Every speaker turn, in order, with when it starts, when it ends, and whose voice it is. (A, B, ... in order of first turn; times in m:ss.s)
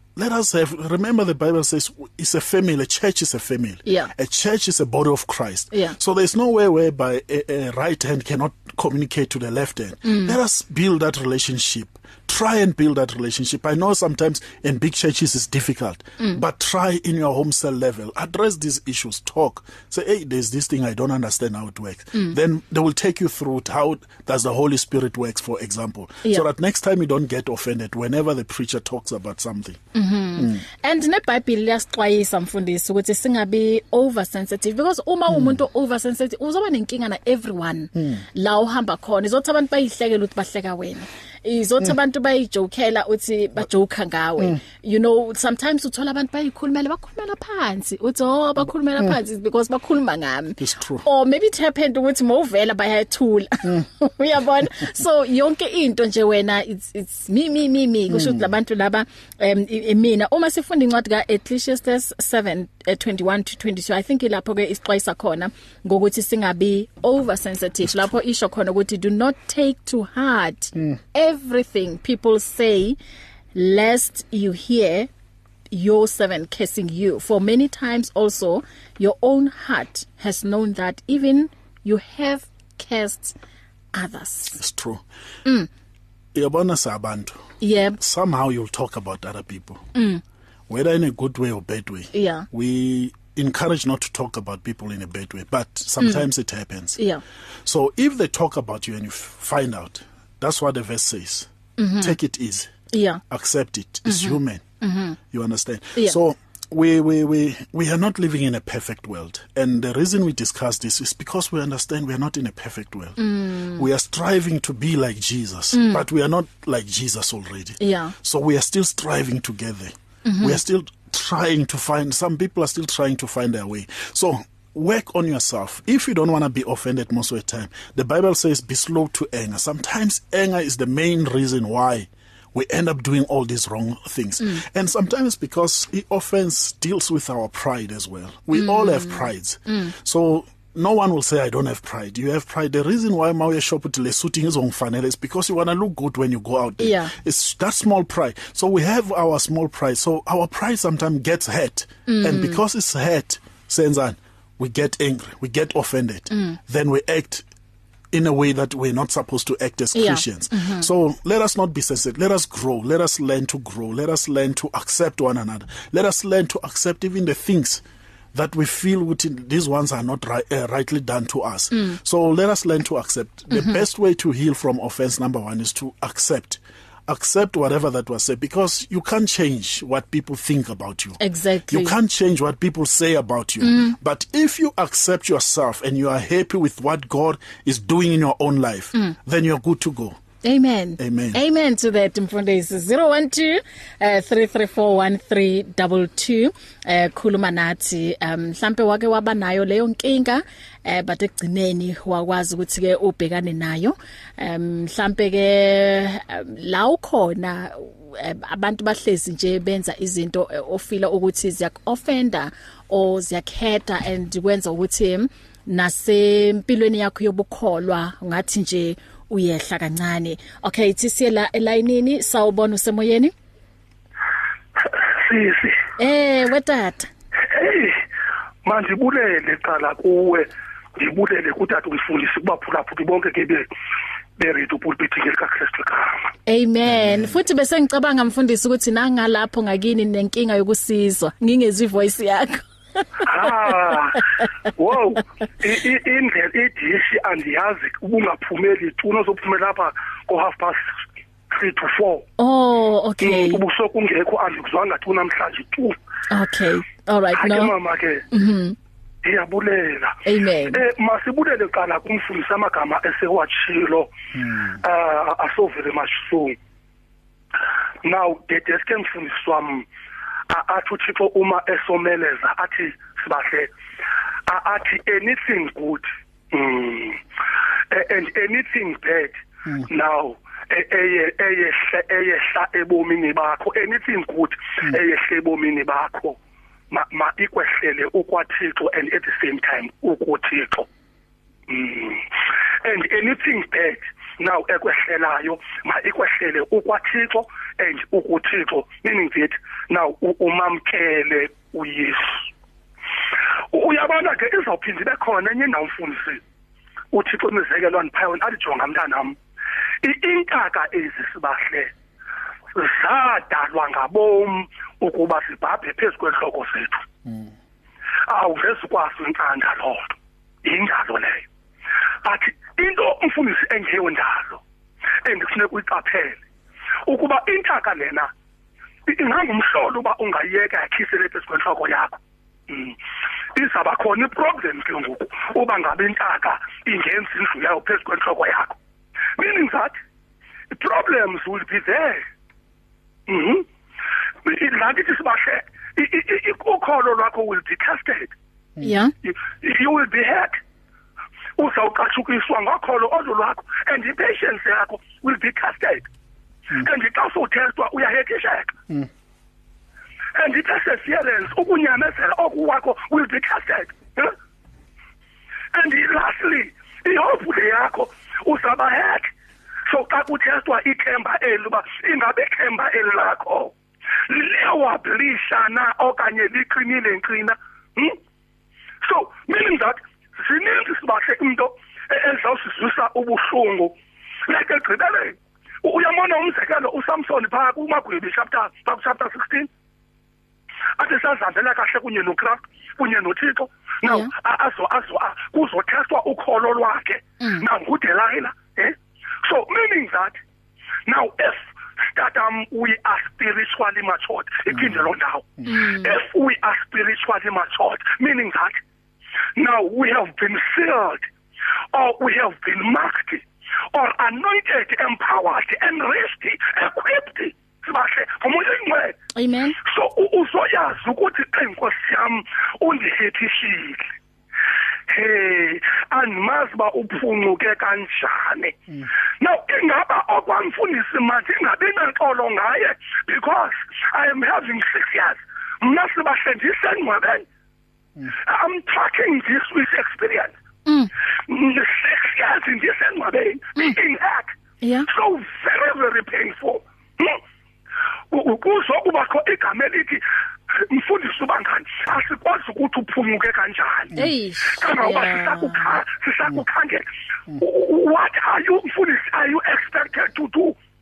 0:00.2-0:29.8 A
0:03.9-0:04.1 B
0:10.0-0:10.4 B
0:29.9-1:13.0 B
0:50.6-0:51.1 A
0:58.1-0:58.4 A
1:13.5-1:15.1 B
1:15.7-1:23.4 B
1:23.9-1:24.6 B
1:24.5-1:25.0 A
1:26.3-1:27.4 A
1:27.6-1:28.0 B
1:28.0-1:29.9 A
1:29.9-1:30.2 B
1:30.7-1:37.0 A
1:32.1-1:32.4 B
1:37.6-1:42.7 A
1:41.8-1:42.2 B
1:42.9-1:43.2 B
1:43.3-1:44.6 A
1:44.1-1:45.2 B
1:45.3-2:37.4 A
1:53.2-1:53.8 B
1:55.7-1:56.0 B
1:57.8-1:58.1 B
2:00.2-2:00.6 B
2:18.5-2:19.9 B
2:26.8-2:27.1 B
2:32.1-2:32.6 B
2:36.3-2:36.6 B
2:38.1-2:47.8 A
2:39.9-2:40.9 B
2:48.3-3:10.2 A
2:53.5-2:53.8 B
3:01.2-3:02.0 B
3:03.6-3:04.0 B
3:10.4-3:43.3 B
3:11.0-3:11.4 A
3:44.8-3:45.8 C
3:46.0-3:47.1 B
3:47.5-3:48.0 C
3:48.6-3:53.7 C
3:54.4-3:56.3 C
3:56.5-4:04.2 B
3:57.0-3:57.2 A
4:03.2-4:04.2 C
4:04.8-4:10.9 C
4:11.5-4:12.2 C
4:12.4-4:13.6 B
4:13.2-4:16.0 C
4:16.3-4:17.7 B
4:17.3-4:18.2 C
4:18.3-4:18.8 B
4:19.2-4:20.2 C
4:20.2-4:20.8 B
4:20.7-4:24.1 C
4:24.4-4:24.7 A
4:24.7-4:26.6 C
4:28.0-4:29.9 C
4:30.5-4:33.7 C
4:34.5-4:37.2 C
4:37.9-4:46.4 C
4:46.9-4:50.9 C
4:51.7-5:02.5 C
5:03.7-5:06.4 C
5:07.1-5:09.4 C
5:10.0-5:11.9 C
5:12.7-5:17.0 C
5:17.2-5:17.5 A
5:18.3-5:21.4 C
5:22.2-5:24.6 C
5:25.2-5:26.4 C
5:27.0-5:28.3 C
5:29.1-5:33.0 C
5:33.5-5:38.8 C
5:39.4-5:40.0 C
5:40.7-5:42.2 C
5:43.3-5:43.6 C
5:44.4-5:48.3 C
5:48.8-5:49.1 B
5:49.2-5:50.6 C
5:51.6-5:56.1 C
5:56.7-5:58.7 C
6:00.4-6:04.4 C
6:05.7-6:09.3 C
6:09.9-6:13.7 C
6:14.3-6:18.2 C
6:19.0-6:23.9 C
6:24.5-6:29.7 C
6:31.0-6:40.4 C
6:34.1-6:34.3 B
6:41.1-6:48.8 C
6:44.7-6:45.0 A
6:45.7-6:46.2 B
6:49.6-6:51.3 C
6:51.9-6:59.2 C
6:59.4-6:59.8 B
6:59.8-7:04.1 C
7:05.1-7:08.8 C
7:09.4-7:17.4 C
7:18.3-7:20.5 C
7:20.9-7:21.1 B
7:21.5-7:24.5 C
7:24.8-7:25.1 B
7:25.1-7:27.4 C
7:28.3-7:40.8 C
7:34.1-7:36.0 B